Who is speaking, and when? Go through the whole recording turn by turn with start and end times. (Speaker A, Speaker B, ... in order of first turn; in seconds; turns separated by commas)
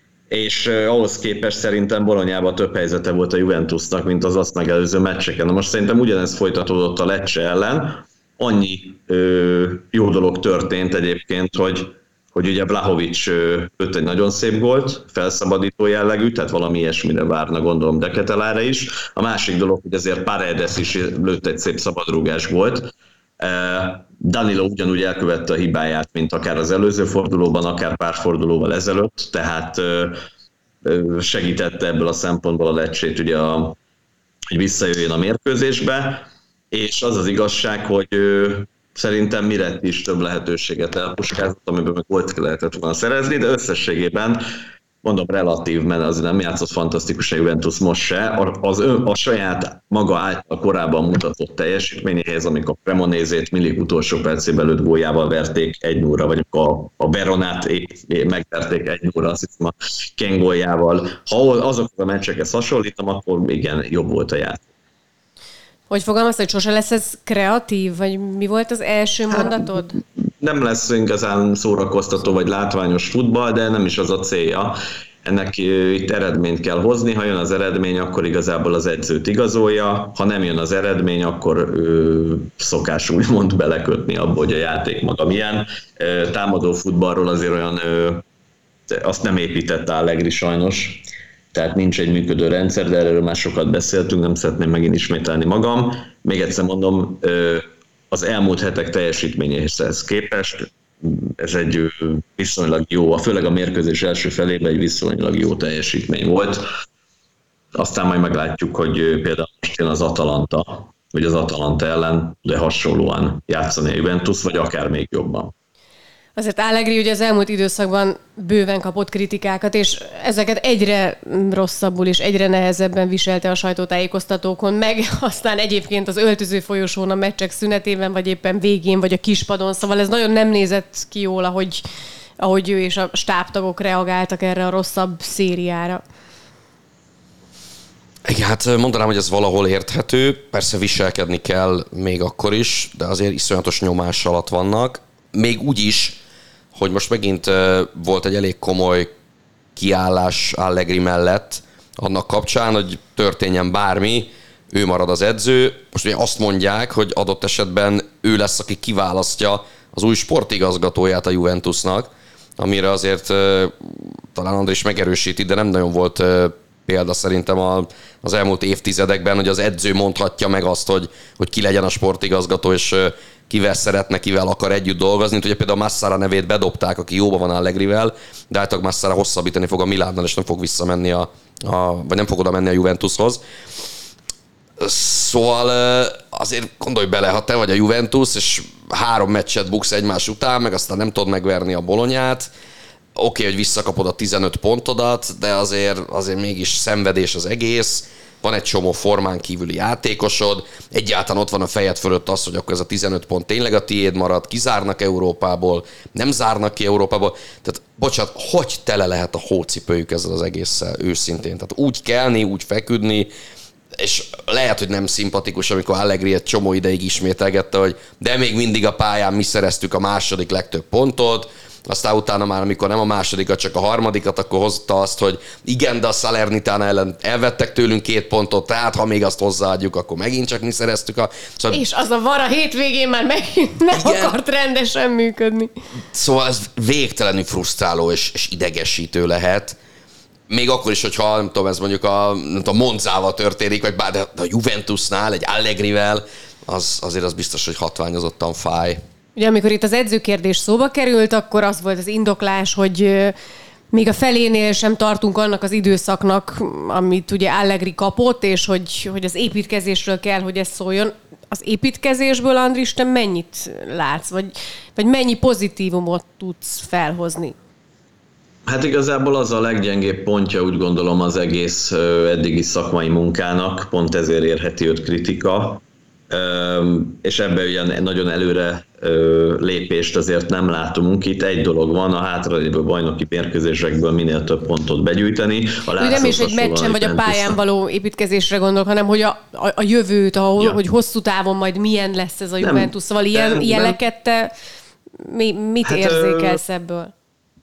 Speaker A: 0.3-30.2, Speaker A: 30.8-33.8, Speaker A: 34.5-44.4, Speaker A: 45.0-64.6, Speaker B: 65.9-70.0, Speaker A: 70.4-88.2, Speaker A: 88.9-106.7, Speaker A: 107.8-115.5, Speaker B: 116.4-131.8, Speaker B: 132.4-136.0, Speaker C: 138.2-146.2, Speaker C: 146.7-149.1, Speaker C: 149.8-183.4, Speaker C: 184.8-192.5, Speaker C: 193.2-213.3, Speaker C: 214.0-231.8, Speaker B: 231.7-235.7, Speaker C: 233.9-234.3, Speaker C: 236.1-239.8, Speaker C: 240.5-249.0, Speaker B: 249.4-253.3, Speaker B: 253.9-267.6, Speaker A: 268.6-287.6, Speaker B: 286.0-294.5, Speaker A: 292.6-294.0, Speaker B: 295.2-297.1, Speaker A: 295.8-296.6